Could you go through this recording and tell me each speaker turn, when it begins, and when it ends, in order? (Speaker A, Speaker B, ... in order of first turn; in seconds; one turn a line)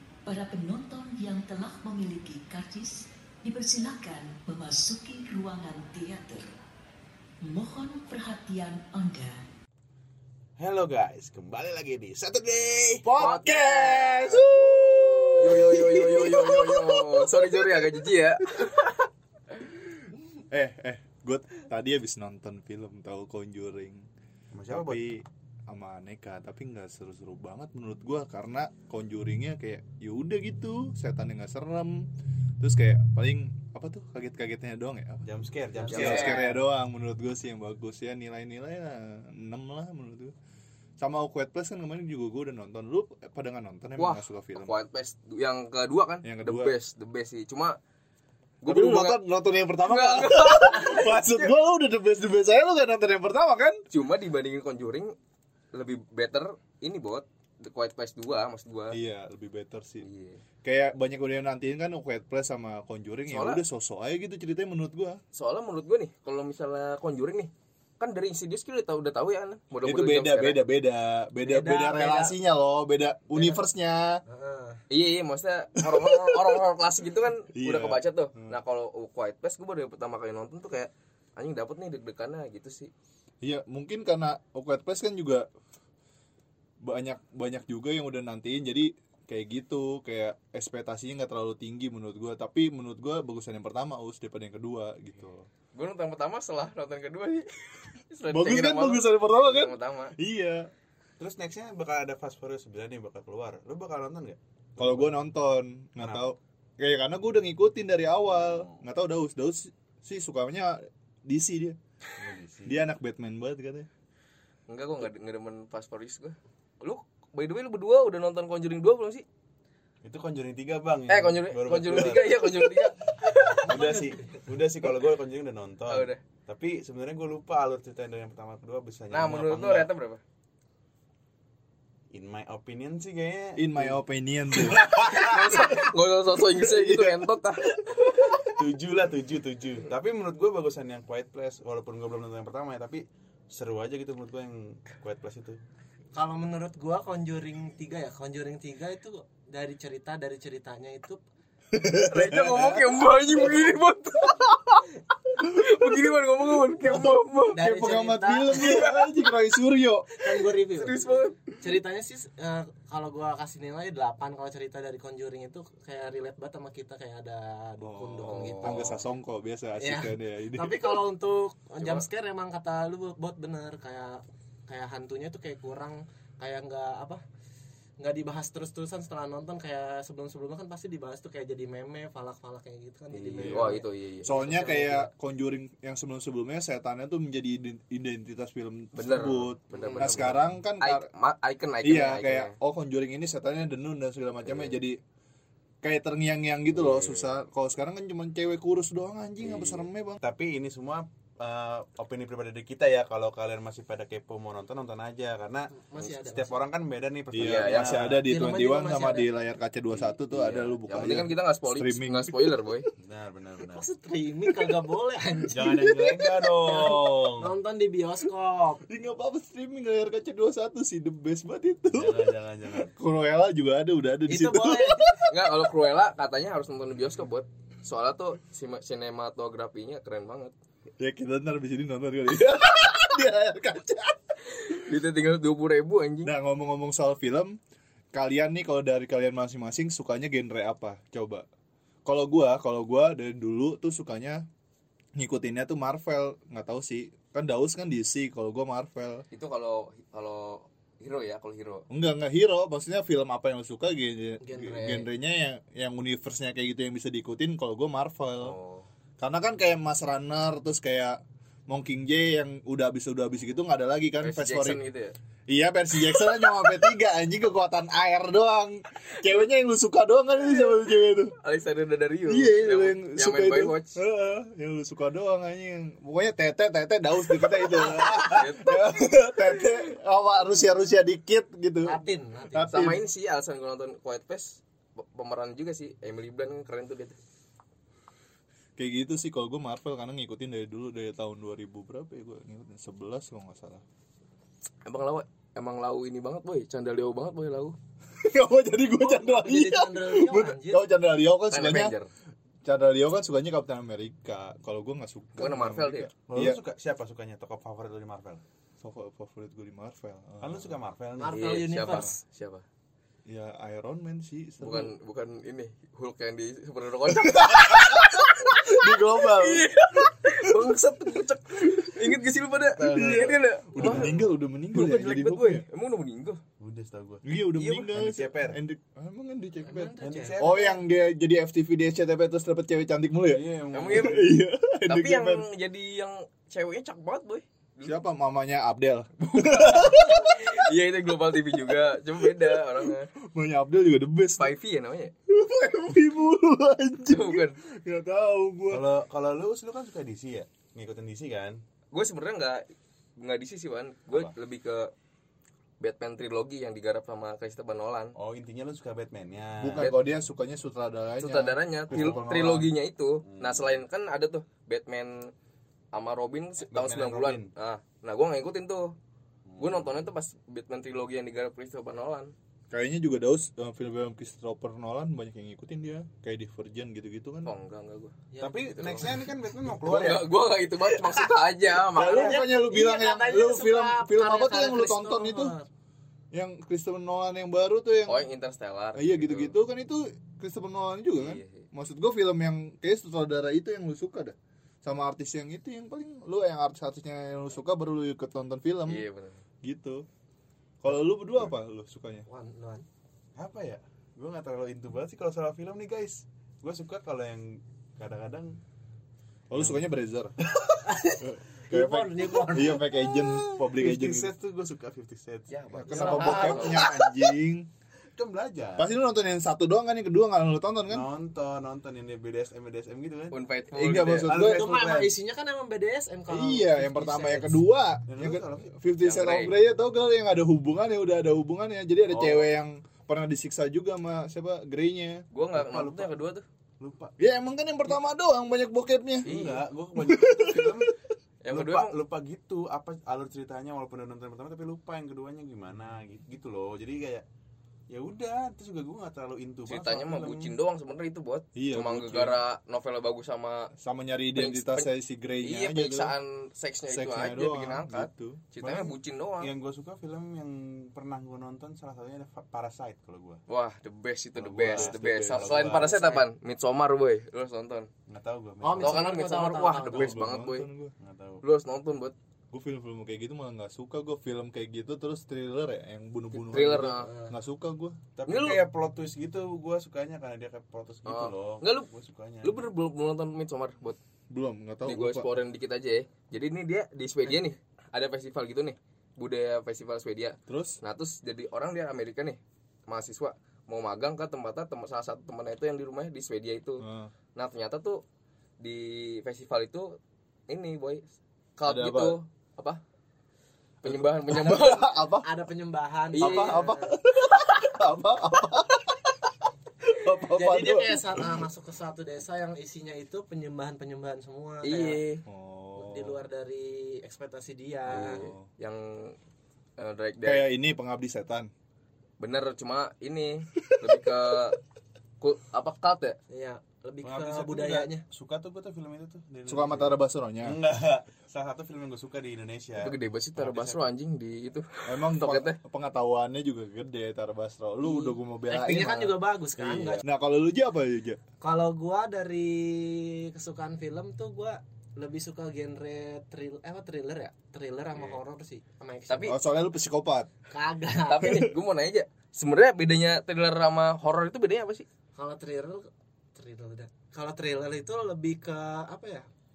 Speaker A: 0.2-6.5
Speaker A: 7.4-9.4
Speaker B: 10.6-13.1
Speaker C: 13.0-17.5
Speaker D: 13.2-14.5
Speaker D: 15.4-18.9
Speaker C: 20.5-24.1
Speaker B: 24.5-25.0
Speaker C: 24.7-35.3
Speaker B: 35.2-36.4
Speaker E: 35.8-36.6
Speaker C: 35.9-40.3
Speaker D: 35.9-36.5
Speaker C: 41.0-44.8
Speaker D: 44.0-47.8
Speaker C: 46.2-46.7
Speaker D: 48.6-49.2
Speaker C: 48.6-53.8
Speaker D: 49.8-51.5
Speaker D: 53.9-55.1
Speaker D: 55.7-59.0
Speaker C: 58.9-60.0
Speaker D: 60.0-60.4
Speaker C: 60.6-65.2
Speaker D: 63.3-63.6
Speaker D: 65.3-70.6
Speaker C: 69.8-74.2
Speaker E: 71.4-72.3
Speaker D: 73.3-73.6
Speaker E: 74.2-74.8
Speaker D: 74.9-82.9
Speaker C: 75.8-76.6
Speaker C: 77.5-78.6
Speaker C: 83.4-85.5
Speaker C: 86.8-95.5
Speaker D: 95.7-97.5
Speaker D: 98.1-100.1
Speaker C: 98.3-100.7
Speaker B: 101.2-105.2
Speaker C: 104.8-111.8
Speaker B: 106.0-106.3
Speaker B: 108.3-108.8
Speaker B: 112.2-112.8
Speaker C: 112.7-113.9
Speaker D: 114.7-119.2
Speaker B: 120.0-122.9
Speaker D: 121.1-123.6
Speaker E: 123.6-124.4
Speaker B: 123.6-129.9
Speaker D: 125.9-126.2
Speaker D: 129.1-130.2
Speaker B: 132.1-135.8
Speaker C: 133.6-135.7
Speaker D: 134.8-137.7
Speaker C: 136.5-138.6
Speaker B: 138.5-145.6
Speaker E: 146.1-151.2
Speaker C: 151.7-153.6
Speaker D: 151.9-157.7
Speaker C: 156.8-160.1
Speaker E: 157.5-158.8
Speaker D: 158.5-159.3
Speaker E: 160.1-161.1
Speaker D: 160.7-161.4
Speaker E: 161.6-169.0
Speaker C: 167.8-171.0
Speaker D: 168.2-169.0
Speaker E: 169.8-177.2
Speaker D: 171.8-172.0
Speaker E: 178.0-185.1
Speaker D: 183.1-184.3
Speaker C: 183.4-191.1
Speaker D: 188.9-192.5
Speaker B: 189.8-190.4
Speaker C: 191.8-195.0
Speaker D: 194.4-194.7
Speaker C: 195.8-200.2
Speaker D: 196.8-197.4
Speaker B: 199.4-208.2
Speaker E: 205.7-206.7
Speaker C: 207.3-212.8
Speaker D: 207.3-208.2
Speaker E: 208.2-209.3
Speaker B: 209.9-211.2
Speaker D: 210.9-212.9
Speaker B: 213.0-213.8
Speaker E: 213.7-215.9
Speaker B: 215.5-217.5
Speaker C: 215.6-216.7
Speaker E: 216.6-218.8
Speaker C: 218.9-225.7
Speaker B: 221.9-222.9
Speaker E: 224.3-225.0
Speaker D: 225.3-230.5
Speaker C: 231.0-234.2
Speaker D: 234.5-236.3
Speaker C: 236.2-237.6
Speaker C: 238.1-241.4
Speaker C: 242.0-244.5
Speaker C: 245.2-249.2
Speaker D: 249.3-251.8
Speaker C: 251.9-258.6
Speaker E: 254.4-255.1
Speaker D: 258.4-258.9
Speaker C: 259.2-264.8
Speaker D: 264.2-265.1
Speaker C: 265.5-271.3
Speaker D: 271.4-274.0
Speaker C: 272.2-282.0
Speaker D: 277.8-279.8
Speaker E: 281.8-283.0
Speaker C: 282.5-283.0
Speaker D: 282.7-287.2
Speaker C: 288.8-293.8
Speaker D: 294.8-297.8
Speaker C: 298.2-301.9
Speaker E: 299.0-300.9
Speaker D: 301.5-302.1
Speaker C: 302.6-306.6
Speaker D: 305.4-306.1
Speaker B: 306.3-308.4
Speaker C: 308.8-310.8
Speaker B: 310.4-311.8
Speaker E: 311.2-312.2
Speaker D: 311.3-312.6
Speaker C: 311.8-312.1
Speaker C: 313.2-314.9
Speaker D: 314.6-324.2
Speaker C: 317.1-320.7
Speaker C: 321.6-321.9
Speaker C: 322.8-325.6
Speaker B: 323.7-324.3
Speaker D: 324.7-326.4
Speaker B: 326.6-327.2
Speaker C: 327.2-335.4
Speaker D: 327.6-327.9
Speaker B: 327.8-328.6
Speaker E: 329.6-330.8
Speaker B: 330.0-330.7
Speaker B: 333.3-334.2
Speaker D: 333.7-334.3
Speaker D: 334.9-337.9
Speaker C: 337.8-340.6
Speaker D: 339.2-343.1
Speaker C: 341.6-344.5
Speaker D: 344.4-345.1
Speaker C: 345.3-348.9
Speaker D: 347.1-347.6
Speaker B: 348.7-351.6
Speaker D: 351.9-354.9
Speaker D: 355.8-358.1
Speaker B: 358.1-359.9
Speaker C: 359.6-362.7
Speaker D: 361.2-365.3
Speaker B: 361.9-362.3
Speaker B: 363.2-363.8
Speaker D: 365.9-368.9
Speaker B: 366.6-367.5
Speaker B: 369.5-370.0
Speaker D: 369.6-372.3
Speaker C: 372.7-377.5
Speaker D: 377.4-379.2
Speaker E: 378.3-378.9
Speaker B: 378.4-380.3
Speaker D: 379.8-382.4
Speaker B: 380.9-381.3
Speaker C: 381.9-385.5
Speaker E: 382.0-385.7
Speaker C: 386.3-388.3
Speaker D: 388.1-389.5
Speaker C: 388.9-399.0
Speaker D: 391.1-391.6
Speaker D: 398.9-399.4
Speaker C: 399.6-400.1
Speaker C: 400.8-402.2
Speaker B: 400.9-401.5
Speaker E: 402.3-402.8
Speaker B: 403.3-408.6
Speaker C: 409.5-410.3
Speaker B: 409.5-409.8
Speaker E: 410.8-412.8
Speaker C: 411.2-414.3
Speaker B: 413.6-416.5
Speaker D: 415.5-416.9
Speaker C: 415.7-417.7
Speaker E: 415.9-417.1
Speaker B: 418.1-418.9
Speaker C: 418.8-421.1
Speaker B: 420.9-423.4
Speaker D: 423.3-424.3
Speaker C: 423.7-424.6
Speaker B: 424.2-425.1
Speaker E: 424.4-427.6
Speaker C: 426.3-435.2
Speaker B: 428.1-428.7
Speaker D: 429.0-429.5
Speaker B: 432.1-432.5
Speaker D: 435.3-436.4
Speaker B: 435.5-436.2
Speaker B: 436.8-437.1
Speaker C: 437.2-439.3
Speaker D: 439.2-439.6
Speaker B: 439.2-440.9
Speaker C: 439.9-440.9
Speaker D: 441.4-441.9
Speaker B: 441.5-447.2
Speaker B: 447.9-450.5
Speaker D: 449.6-453.7
Speaker C: 451.6-452.4
Speaker C: 453.8-456.1
Speaker D: 454.3-454.9
Speaker D: 455.4-459.5
Speaker C: 456.9-458.5
Speaker B: 458.6-463.4
Speaker D: 463.5-467.9
Speaker B: 464.4-466.0
Speaker C: 464.6-465.7
Speaker E: 465.7-466.2
Speaker B: 468.1-469.0
Speaker E: 468.6-470.1
Speaker D: 468.8-470.7
Speaker C: 469.9-470.9
Speaker B: 471.0-471.4
Speaker D: 471.4-472.1
Speaker C: 472.5-478.0
Speaker D: 476.5-477.1
Speaker E: 476.7-477.3
Speaker B: 478.2-482.6
Speaker D: 478.3-478.6
Speaker D: 481.1-481.9
Speaker D: 482.4-484.0
Speaker C: 484.3-485.2
Speaker D: 484.9-498.0
Speaker C: 490.5-490.8
Speaker C: 496.8-497.1
Speaker D: 498.6-501.1
Speaker D: 501.6-502.8
Speaker C: 501.6-502.2
Speaker D: 503.8-504.8
Speaker C: 503.8-505.3
Speaker E: 504.4-504.7
Speaker E: 505.2-506.9
Speaker D: 506.1-506.7
Speaker C: 506.2-509.3
Speaker C: 509.8-511.4
Speaker E: 510.3-515.0
Speaker D: 514.6-515.2
Speaker C: 515.2-516.2
Speaker E: 515.8-518.2
Speaker D: 517.9-519.2
Speaker C: 517.9-518.5
Speaker D: 519.8-520.5
Speaker C: 520.2-521.5
Speaker D: 522.2-524.6
Speaker D: 525.2-526.2
Speaker E: 526.3-528.0
Speaker B: 527.0-533.8
Speaker C: 529.5-530.6
Speaker D: 532.8-535.6
Speaker C: 534.9-541.2
Speaker E: 537.8-540.0
Speaker E: 541.4-549.4
Speaker D: 549.1-549.4
Speaker C: 549.2-550.3
Speaker E: 550.5-551.4
Speaker D: 551.1-554.8
Speaker C: 551.2-551.5
Speaker E: 555.1-559.3